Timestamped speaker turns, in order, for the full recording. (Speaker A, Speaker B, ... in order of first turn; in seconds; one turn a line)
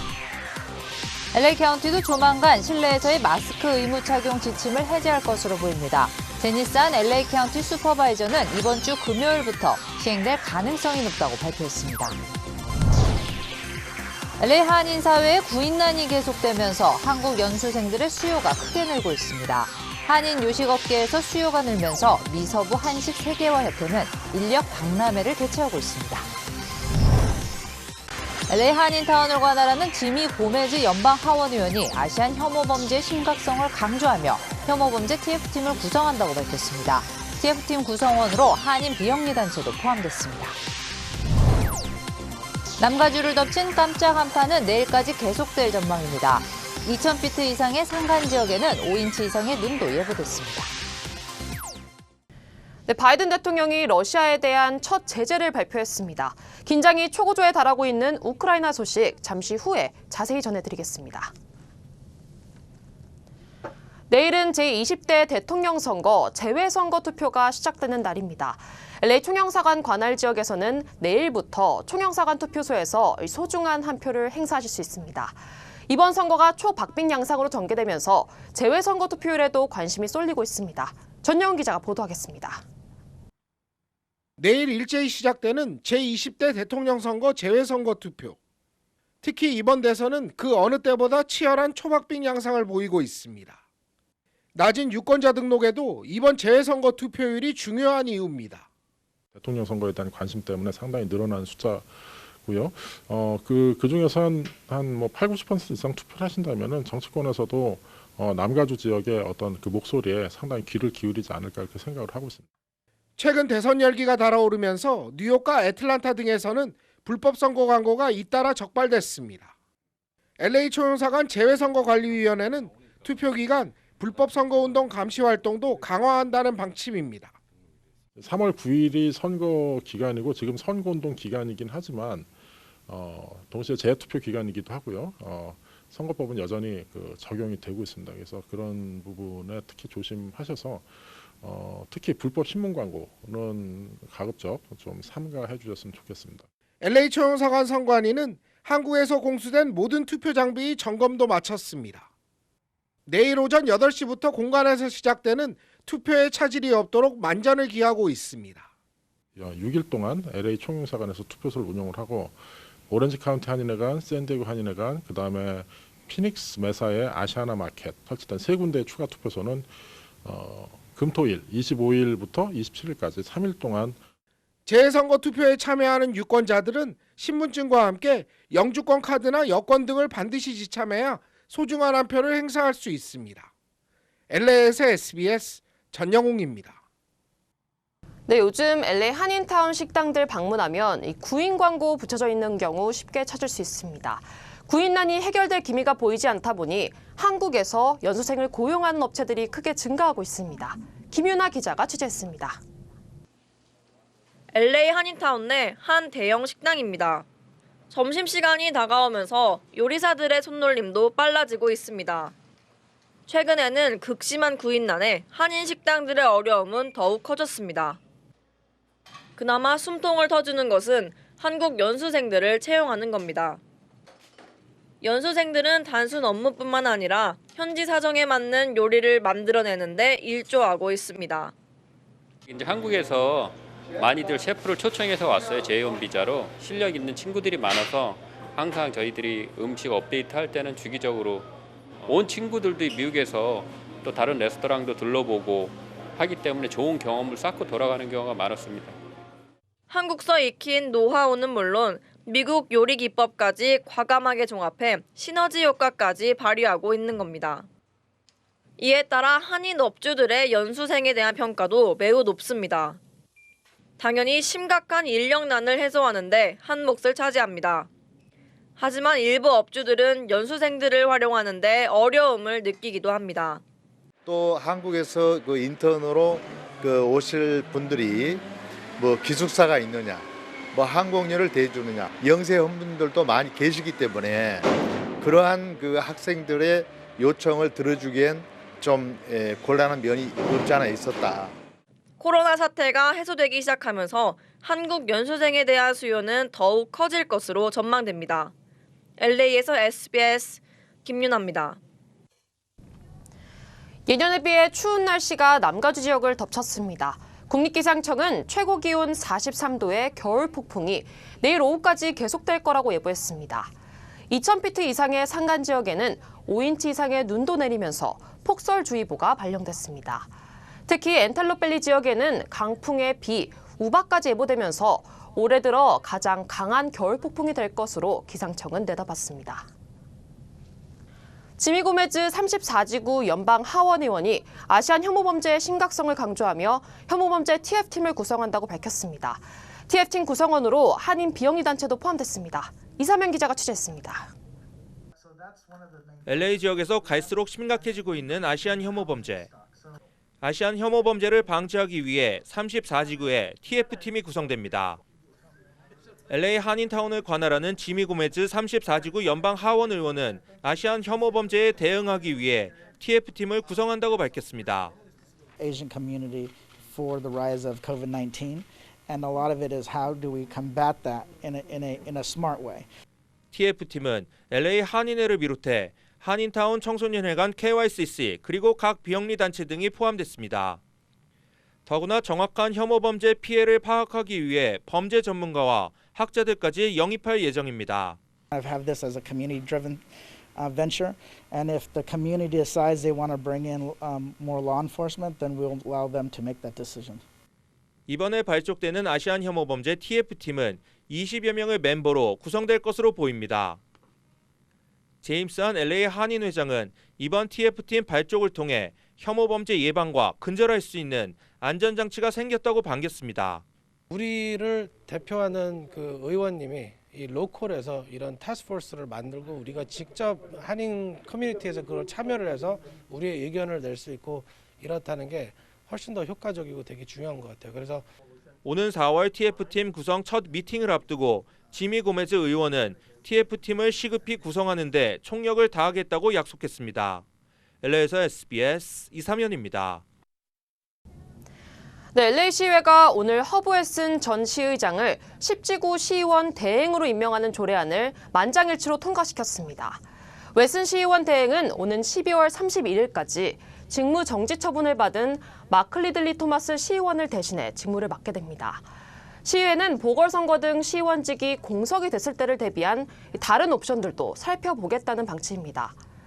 Speaker A: 1.3-12.2
Speaker A: 14.4-26.3
Speaker A: 28.5-40.6
Speaker A: 42.8-50.7
Speaker B: 52.9-61.3
Speaker B: 64.1-82.6
Speaker C: 84.4-88.4
Speaker C: 89.2-93.6
Speaker C: 94.5-98.7
Speaker D: 99.3-112.4
Speaker C: 113.2-119.5
Speaker C: 120.4-127.4
Speaker D: 128.2-132.3
Speaker D: 132.9-146.5
Speaker C: 146.8-152.1
Speaker C: 153.1-158.7
Speaker D: 159.4-174.0
Speaker C: 174.7-183.5
Speaker C: 184.3-186.8
Speaker B: 188.3-202.6
Speaker E: 204.5-207.2
Speaker E: 207.9-212.3
Speaker E: 213.3-218.0
Speaker E: 219.4-223.6
Speaker E: 225.0-231.5
Speaker F: 232.5-241.5
Speaker F: 242.0-249.0
Speaker E: 249.9-257.7
Speaker E: 258.8-263.0
Speaker E: 264.0-267.9
Speaker E: 268.8-273.6
Speaker G: 274.2-278.4
Speaker G: 279.0-291.6
Speaker E: 292.2-298.5
Speaker E: 299.2-301.8
Speaker B: 304.1-313.7
Speaker B: 314.3-320.3
Speaker B: 320.9-329.7
Speaker B: 331.6-344.3
Speaker H: 346.2-349.5
Speaker H: 350.4-355.0
Speaker H: 356.3-364.9
Speaker I: 365.6-372.9
Speaker H: 373.5-380.8
Speaker H: 381.9-388.2
Speaker I: 388.5-390.1
Speaker I: 390.6-397.2
Speaker H: 398.1-403.8
Speaker H: 405.2-413.6
Speaker J: 414.1-428.1
Speaker H: 428.6-437.2
Speaker H: 437.8-440.0
Speaker B: 442.1-450.0
Speaker B: 450.5-458.9
Speaker B: 459.4-465.9